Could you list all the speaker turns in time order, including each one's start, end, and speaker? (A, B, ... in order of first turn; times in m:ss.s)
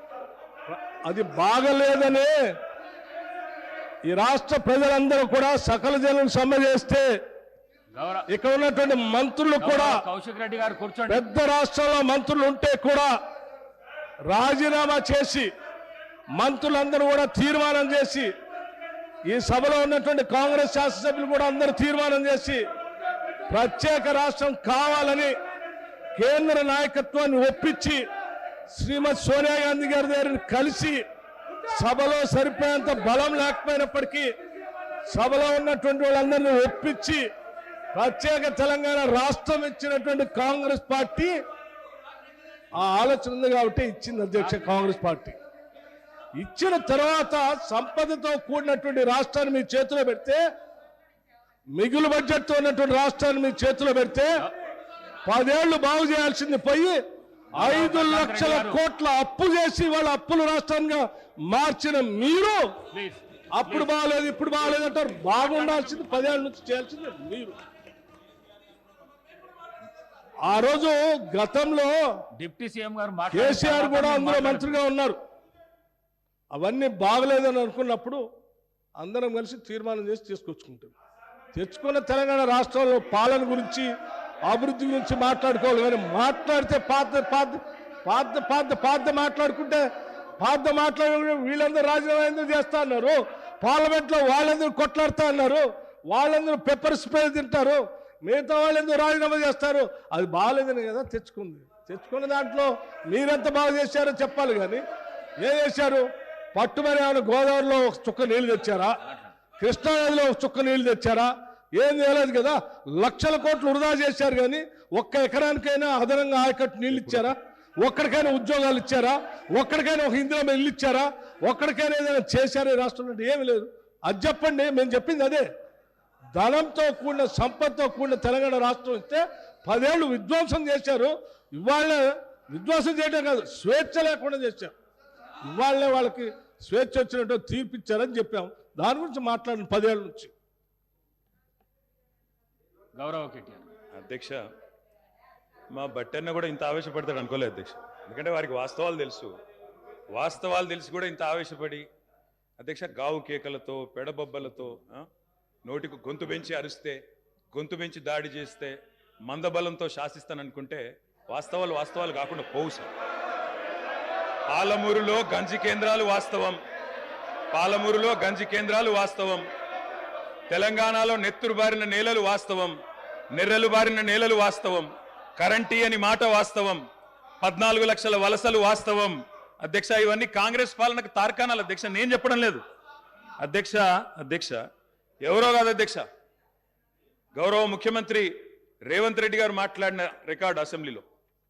0:00.7-0:02.3 A
0:04.1-0:07.1 A
0:07.9-0:08.3 B
0:08.3-0:10.0 A
0:09.6-0:11.3 B
0:11.1-0:13.1 A
0:14.3-0:15.5 A
0:16.4-0:18.3 A
0:19.3-0:22.6 A
0:23.5-0:25.3 A
0:26.2-0:28.0 A
0:28.7-0:31.0 A
0:31.7-0:34.3 A
0:35.1-0:37.2 A
0:37.9-0:41.4 A
0:42.7-0:45.4 A
0:46.4-0:50.4 A
0:51.7-0:54.4 A
0:55.2-0:57.0 A
0:57.5-0:58.8 B
0:57.5-1:02.6 A
1:02.9-1:03.9 B
1:03.5-1:07.6 A
1:05.3-1:06.4 B
1:10.4-1:11.9 A
1:12.4-1:14.8 B
1:13.3-1:15.2 A
1:16.5-1:18.2 A
1:19.0-1:20.9 A
1:21.5-1:23.9 A
1:24.4-1:29.8 A
1:30.4-1:44.8 A
1:45.4-1:49.0 A
1:49.6-2:05.5 A
2:06.4-2:14.7 A
2:15.5-2:20.3 A
2:22.9-2:23.7 B
2:23.9-2:24.4 C
2:25.7-2:29.3 C
2:30.1-2:31.8 C
2:32.6-2:35.0 C
2:35.6-2:37.0 C
2:37.5-2:42.9 C
2:44.5-2:46.6 C
2:47.5-2:49.4 C
2:50.5-2:52.8 C
2:53.3-2:56.8 C
2:57.4-3:02.6 C
3:03.4-3:04.6 C
3:05.2-3:06.0 C
3:07.3-3:08.3 C
3:08.8-3:11.0 C